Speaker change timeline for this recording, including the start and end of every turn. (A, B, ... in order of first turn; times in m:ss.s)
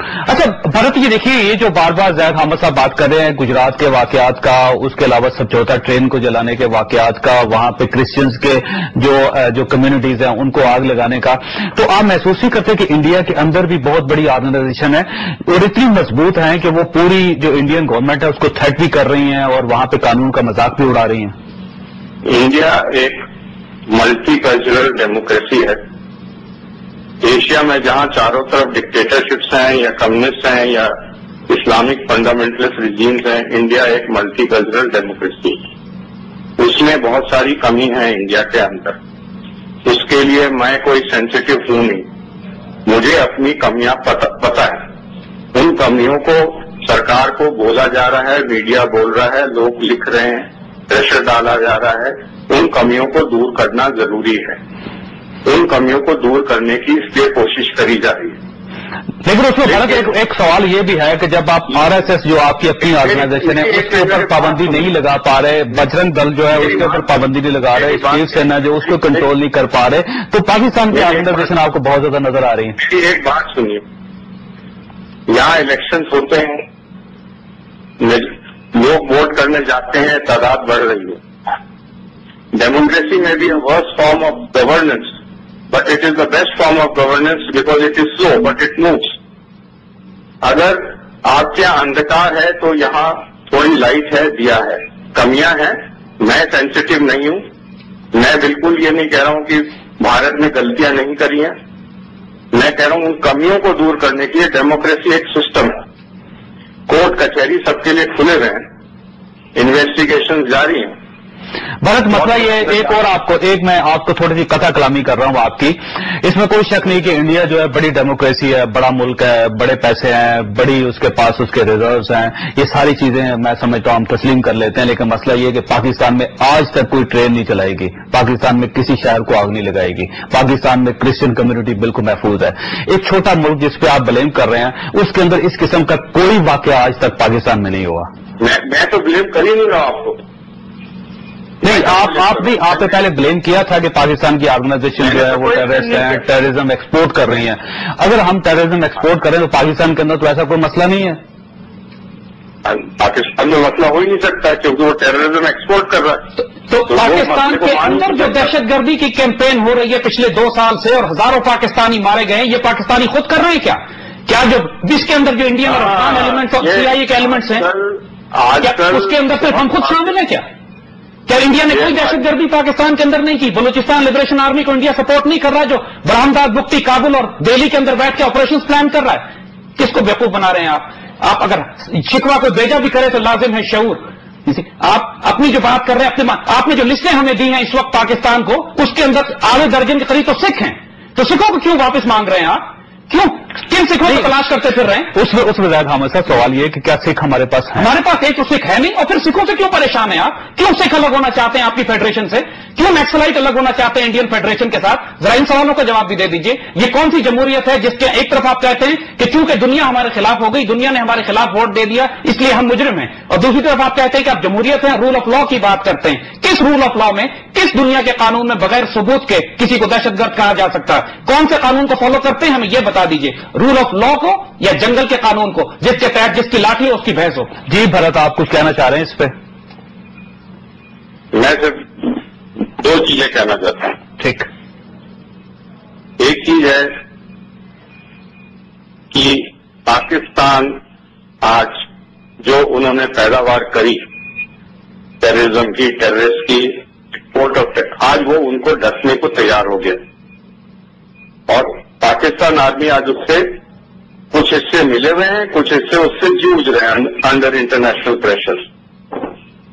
0:00.2-0:21.3 A
0:22.2-0:23.2 B
0:23.9-0:25.8 B
0:27.2-0:30.9 B
0:31.5-0:35.7 B
0:36.6-0:39.0 B
0:39.8-0:42.1 B
0:42.8-0:44.8 B
0:45.5-0:54.6 B
0:55.4-0:58.4 B
0:59.2-1:12.8 A
0:59.7-1:00.0 B
1:03.0-1:04.9 B
1:06.6-1:07.0 B
1:07.7-1:09.2 B
1:10.9-1:11.4 B
1:12.8-1:13.8 B
1:15.3-1:16.6 B
1:18.0-1:21.2 B
1:22.5-1:25.1 B
1:25.7-1:29.1 B
1:30.4-1:37.4 B
1:38.1-1:41.6 B
1:42.5-1:45.8 B
1:46.9-1:48.6 B
1:49.5-1:51.0 B
1:51.8-2:18.1 A
1:52.1-1:52.9 B
2:18.4-2:20.2 B
2:21.6-2:31.2 A
2:21.6-2:22.9 B
2:25.0-2:26.2 B
2:32.6-2:36.3 B
2:36.6-2:47.7 C
2:36.9-2:38.5 B
2:45.6-2:50.1 B
2:48.6-2:50.4 C
2:51.3-2:59.2 C
2:51.7-2:52.1 B
2:59.8-3:15.1 C
3:15.1-3:17.9 A
3:17.8-3:47.5 C
3:47.7-3:49.3 A
3:51.3-3:54.0 B
3:54.2-3:54.5 A
3:56.2-3:56.9 B
3:59.1-4:00.8 B
4:01.4-4:01.8 B
4:02.4-4:04.0 B
4:05.2-4:10.0 B
4:11.5-4:13.6 B
4:14.3-4:18.6 B